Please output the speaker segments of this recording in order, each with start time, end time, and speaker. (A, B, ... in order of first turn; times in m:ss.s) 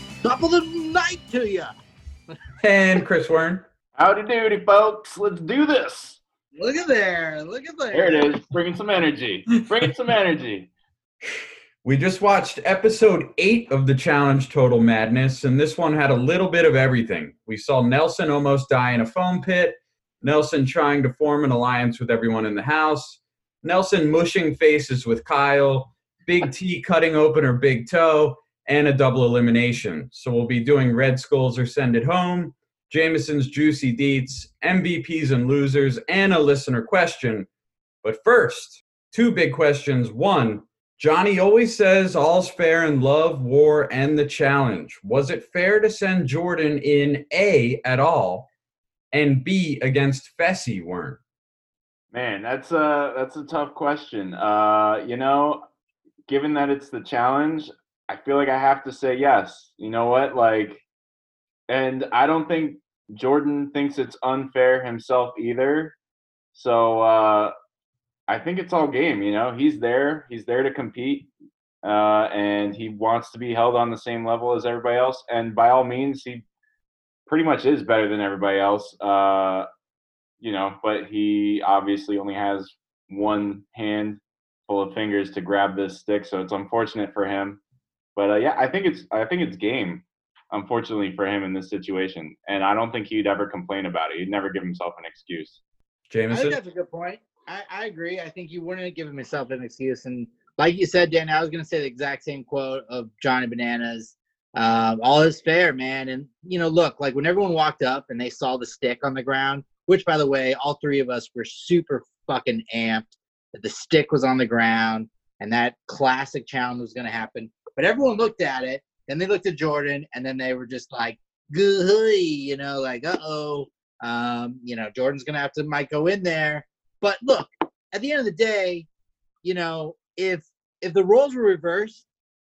0:00.2-0:01.7 A
0:02.6-0:03.6 B
0:04.0-0:06.2 C
0:06.6-0:08.3 A
0:07.9-0:10.7 C
0:11.8-0:37.5 B
0:38.0-0:48.5 B
0:49.1-0:51.2 B
0:52.1-0:55.6 C
0:56.3-1:00.8 C
1:01.7-1:06.0 C
1:06.5-1:07.5 C
1:08.3-1:11.3 C
1:11.8-1:16.4 C
1:17.3-1:19.7 C
1:20.4-1:27.6 C
1:28.2-1:35.6 C
1:36.1-1:36.6 B
1:36.3-2:08.9 A
2:09.4-2:12.0 A